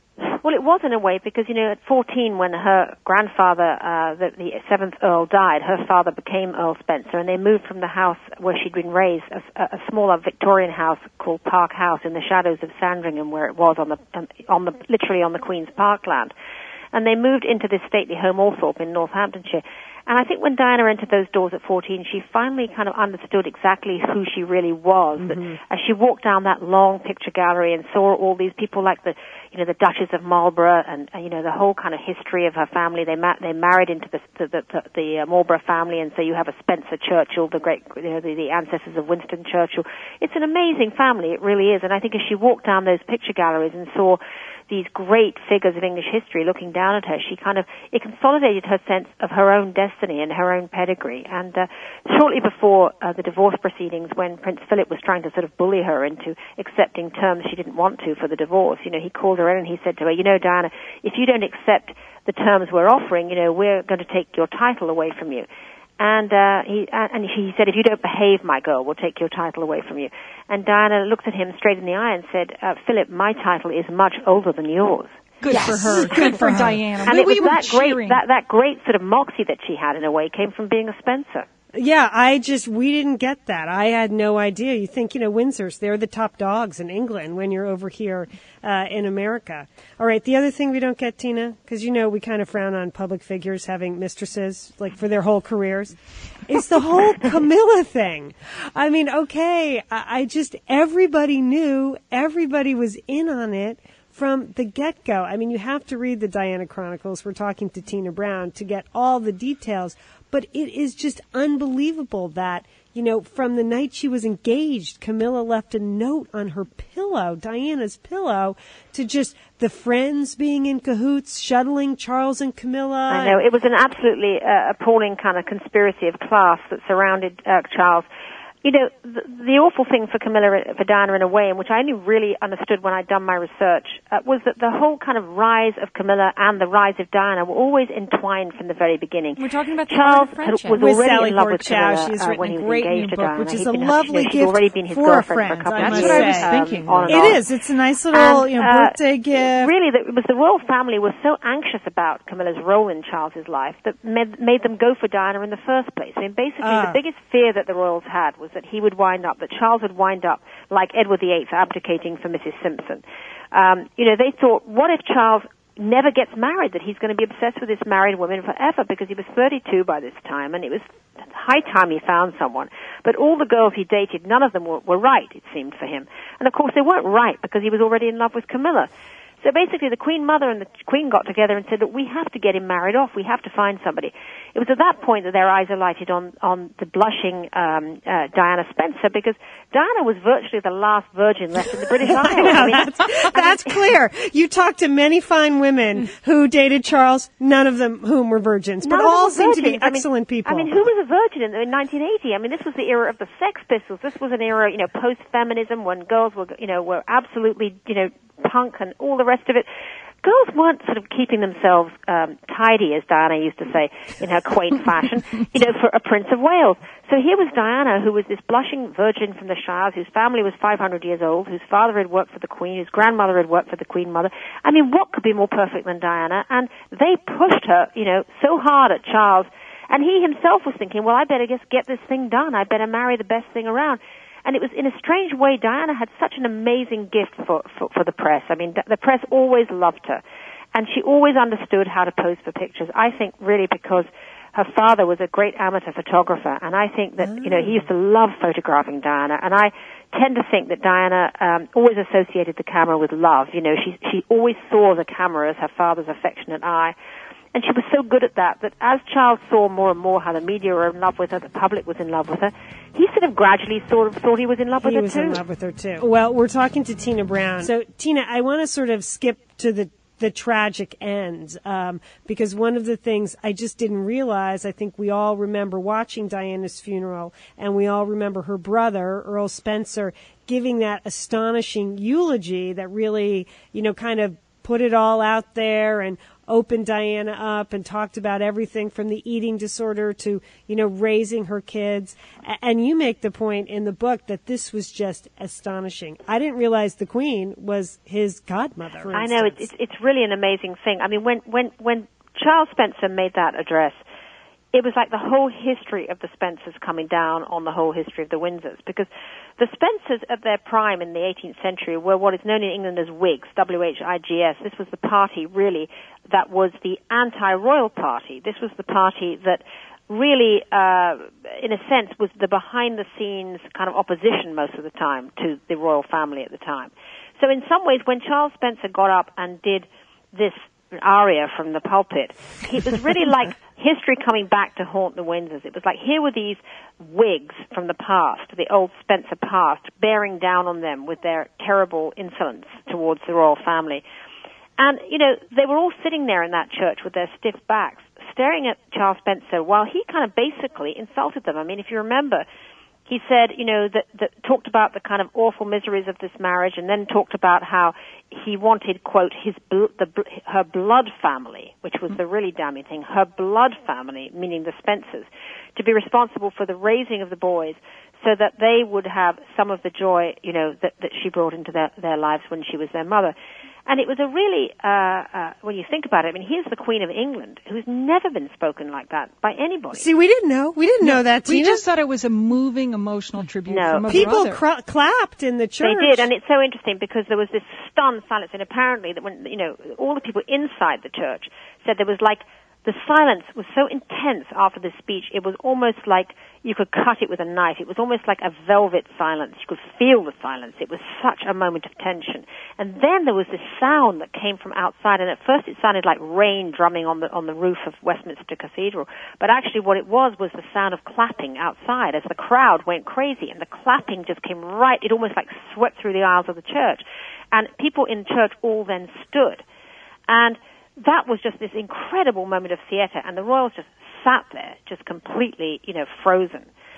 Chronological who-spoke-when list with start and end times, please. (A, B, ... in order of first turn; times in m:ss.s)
0:00.3-0:16.3 A
0:16.9-1:05.4 A
1:06.0-1:21.4 A
1:15.4-1:18.2 B
1:21.7-1:35.9 C
1:36.5-2:03.4 C
2:03.1-2:08.1 A
2:08.6-2:27.4 A
2:19.5-2:20.7 B
2:20.6-2:26.6 C
2:25.7-2:27.4 B
2:27.1-2:29.7 C
2:28.1-2:58.9 A
2:36.6-2:37.0 C
2:59.4-3:13.8 A
3:12.0-3:20.7 C
3:18.8-3:29.7 A
3:30.2-4:00.2 A
4:00.7-4:16.9 A
4:07.3-4:07.8 C
4:17.5-4:25.4 A
4:24.8-4:59.7 C
4:59.1-5:04.0 A
5:04.7-5:44.0 A
5:44.8-5:52.4 A
5:53.1-6:13.3 A
6:13.9-6:20.1 A
6:19.9-6:21.8 C
6:21.0-6:24.6 B
6:23.7-6:24.4 A
6:24.1-6:26.3 C
6:25.8-6:59.6 A
7:00.3-7:06.7 A